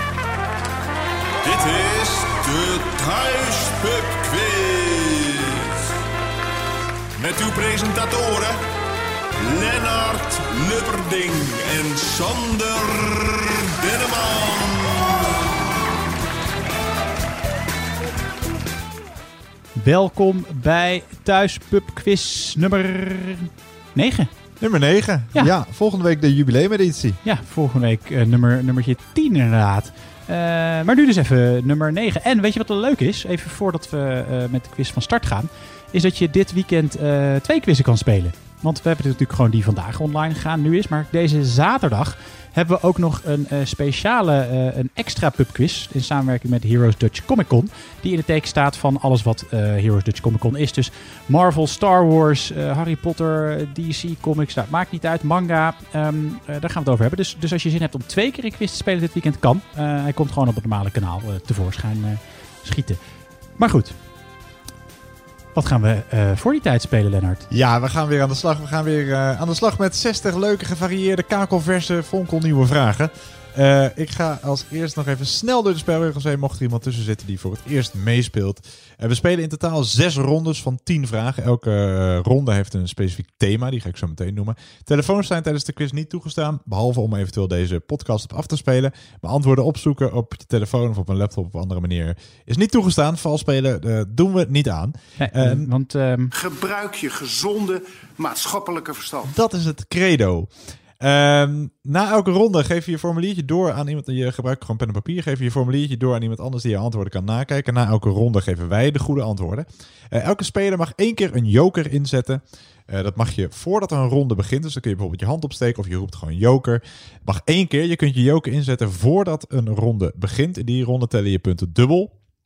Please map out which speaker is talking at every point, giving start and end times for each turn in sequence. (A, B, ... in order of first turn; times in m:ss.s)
0:01.4-0:05.7 A
0:07.2-0:08.6 A
0:09.4-0:15.4 A
0:19.8-0:24.3 B
0:24.6-0:27.2 C
0:27.2-1:03.0 B
1:03.6-1:03.9 B
1:05.5-1:07.4 B
1:07.5-1:35.7 C
1:35.2-1:36.3 B
1:36.3-1:39.3 D
1:39.3-2:02.1 C